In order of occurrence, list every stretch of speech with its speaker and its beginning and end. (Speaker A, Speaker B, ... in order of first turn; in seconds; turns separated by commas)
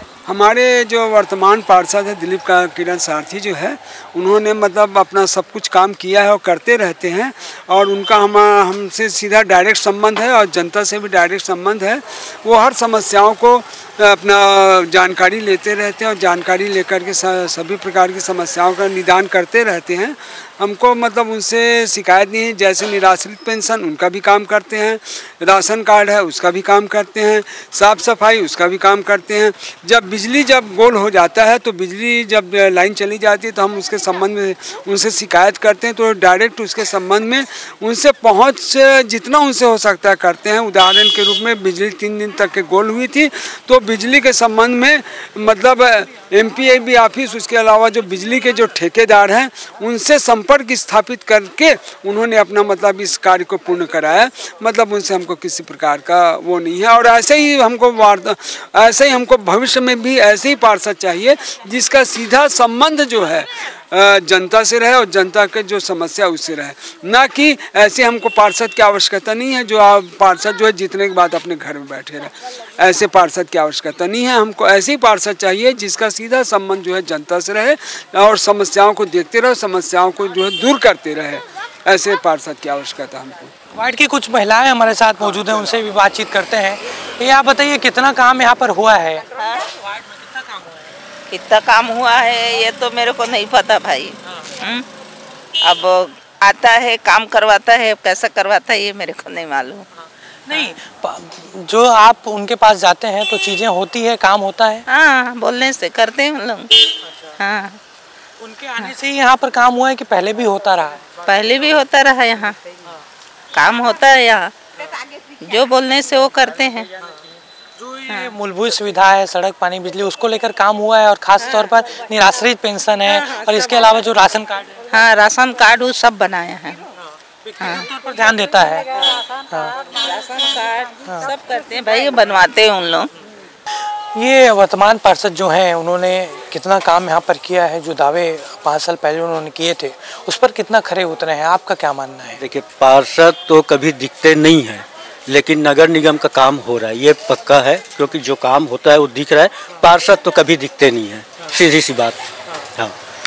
Speaker A: 0.2-83.5, Speaker B: 83.7-89.2, Speaker C: 89.4-89.6, Speaker C: 91.3-94.8, Speaker C: 95.6-99.8, Speaker B: 100.5-104.8, Speaker C: 104.9-106.8, Speaker C: 107.4-107.8, Speaker B: 108.4-111.1, Speaker C: 111.2-112.6, Speaker C: 113.5-114.5, Speaker C: 115.4-116.9, Speaker B: 117.8-124.8, Speaker C: 124.9-126.8, Speaker B: 127.5-129.8, Speaker C: 130.0-133.1, Speaker B: 134.1-142.4, Speaker D: 142.4-152.2